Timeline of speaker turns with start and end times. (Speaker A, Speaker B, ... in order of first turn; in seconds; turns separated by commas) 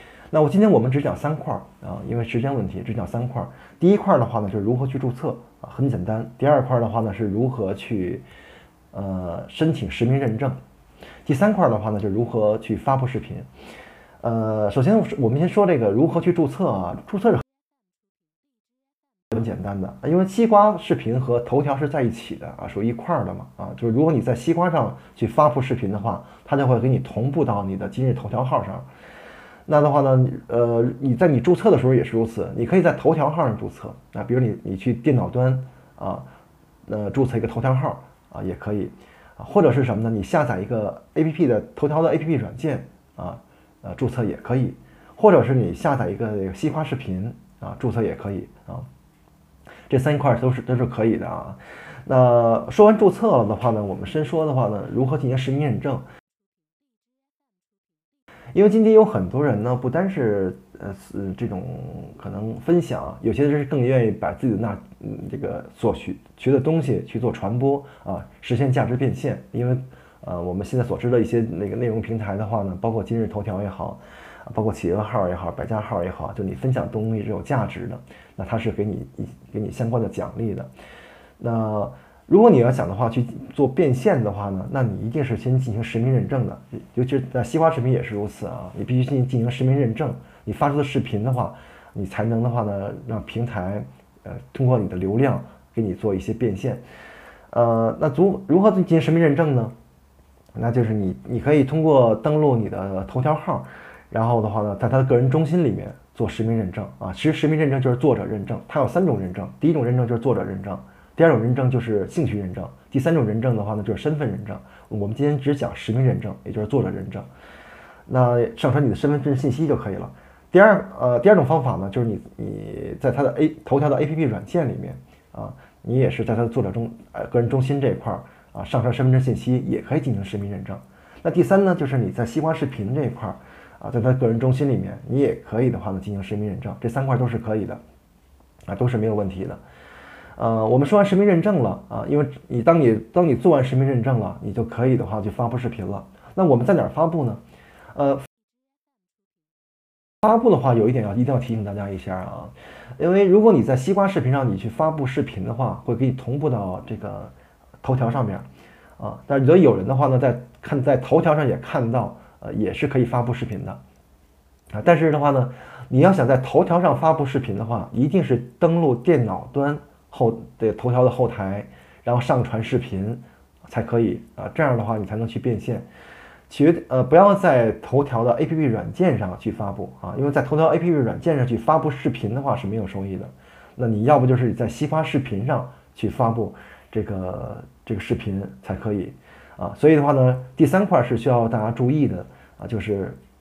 Speaker A: 0.3-8.2, Speaker A: 8.9-10.6, Speaker A: 11.2-13.5, Speaker A: 14.2-17.4, Speaker A: 19.3-28.9, Speaker A: 29.7-36.2, Speaker A: 36.9-48.9, Speaker A: 49.9-56.1, Speaker A: 58.5-80.7, Speaker A: 81.4-96.8, Speaker A: 97.5-99.7, Speaker A: 100.5-117.3, Speaker A: 118.1-137.8, Speaker A: 138.7-139.6, Speaker A: 140.4-147.4, Speaker A: 147.9-148.3, Speaker A: 150.2-158.5, Speaker A: 159.0-163.8, Speaker A: 164.7-175.9, Speaker A: 176.5-193.2